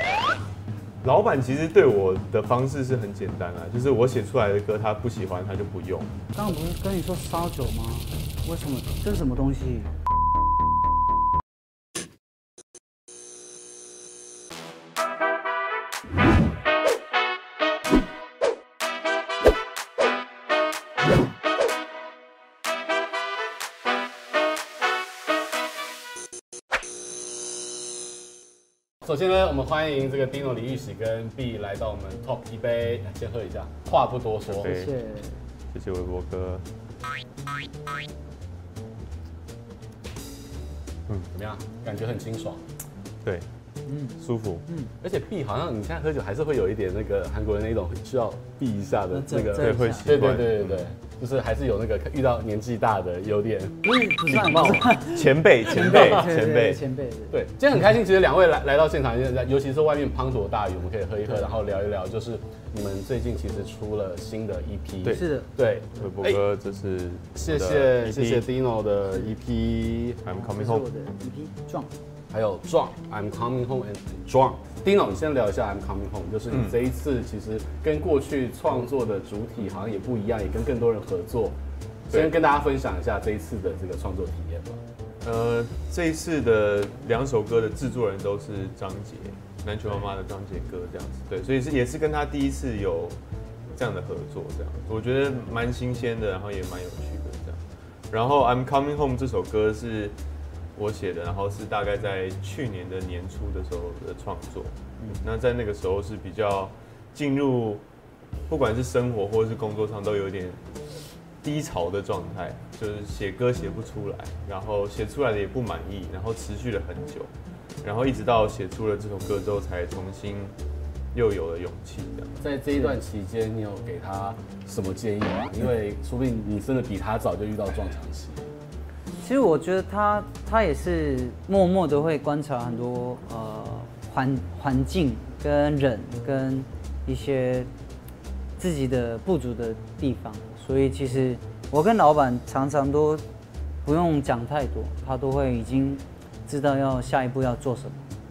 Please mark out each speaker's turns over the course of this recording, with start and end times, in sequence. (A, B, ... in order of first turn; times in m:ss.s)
0:01.0-0:06.1 A
0:06.3-0:09.9 B
0:29.0-0:34.9 C
0:34.5-0:34.9 A
0:34.6-0:35.4 B
0:35.7-0:36.6 A
0:41.3-0:42.6 C
0:43.9-0:44.9 B
0:44.2-0:44.6 A
0:45.0-0:55.0 C
0:49.1-0:50.2 B
0:49.6-0:50.9 A
0:53.8-0:57.4 B
0:55.0-0:56.8 A
0:55.8-0:56.2 C
0:57.3-1:06.4 C
1:05.0-1:05.5 B
1:06.0-1:08.4 A
1:07.3-1:10.2 C
1:10.2-1:10.8 A
1:10.3-1:11.9 B
1:12.3-1:21.6 C
1:16.5-1:16.8 A
1:22.1-1:24.8 C
1:25.2-1:33.2 A
1:33.7-1:40.2 A
1:40.8-1:47.8 A
1:48.5-1:50.6 A
1:51.4-1:57.3 A
1:57.8-2:00.5 A
2:01.1-2:02.4 A
2:02.4-2:08.5 C
2:09.2-2:17.7 B
2:18.6-2:23.2 B
2:23.8-2:28.1 B